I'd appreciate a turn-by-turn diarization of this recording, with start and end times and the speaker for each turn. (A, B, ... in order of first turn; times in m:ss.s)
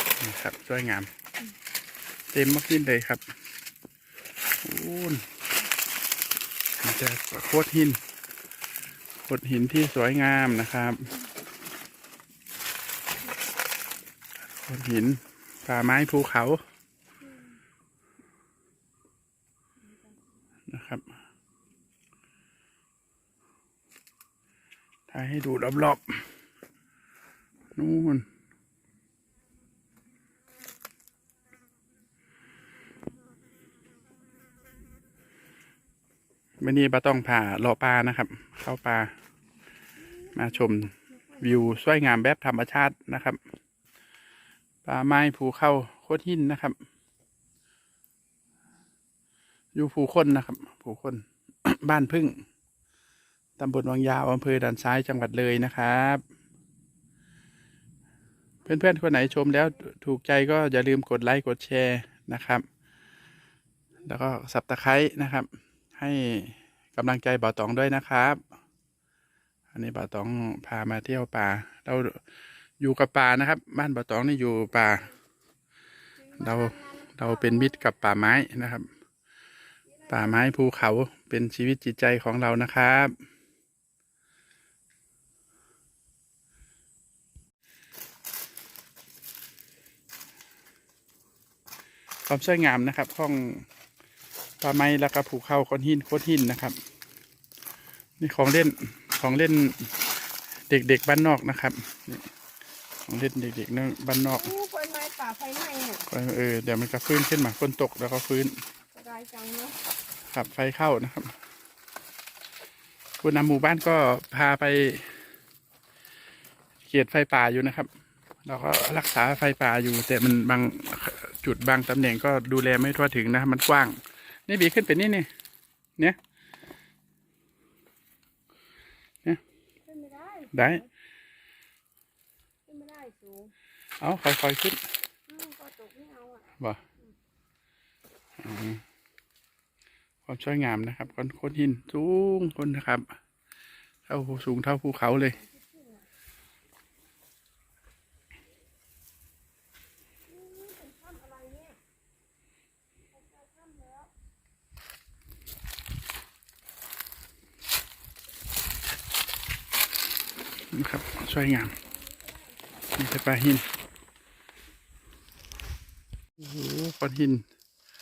0:00.2-0:01.1 A
0:02.3-0:03.2 A
0:04.6-0:05.2 A
0:06.8-0:08.0 A
0:09.3-0:11.1 A
0:14.7-0:16.6 A
0:17.2-0:17.6 B
0:19.8-0:20.2 B
0:20.7-0:21.0 A
0:25.1-0:26.2 A
0:27.8-0:28.3 A
0:36.6-0:39.1 A
0:40.0-0:41.8 B
0:40.3-0:43.4 A
0:44.8-0:46.8 A
0:49.7-0:52.4 A
0:53.6-0:56.2 A
0:58.6-0:59.8 B
0:58.6-1:02.6 A
1:04.0-1:08.4 A
1:09.7-1:12.2 A
1:12.8-1:15.1 A
1:16.2-1:17.9 B
1:16.4-1:18.9 A
1:19.8-1:20.7 B
1:20.1-1:23.1 A
1:32.3-1:33.7 A
1:34.6-1:36.8 A
1:38.2-1:39.9 A
1:40.7-1:42.3 A
1:43.1-1:44.5 A
1:44.3-1:46.0 B
1:46.1-1:48.6 A
1:48.9-1:49.8 B
1:50.3-1:51.3 A
1:53.2-1:55.2 A
1:56.8-1:57.9 A
1:58.4-2:05.3 A
2:09.8-2:10.8 B
2:10.5-2:10.8 A
2:12.7-2:13.5 B
2:14.0-2:14.8 A
2:15.3-2:16.5 B
2:18.4-2:18.8 A
2:20.3-2:23.1 A
2:24.1-2:25.4 A
2:25.2-2:26.0 B
2:30.3-2:31.8 B
2:33.1-2:34.1 B
2:40.7-2:41.8 A
2:41.6-2:42.9 B
2:43.0-2:43.7 A
2:46.4-2:47.4 A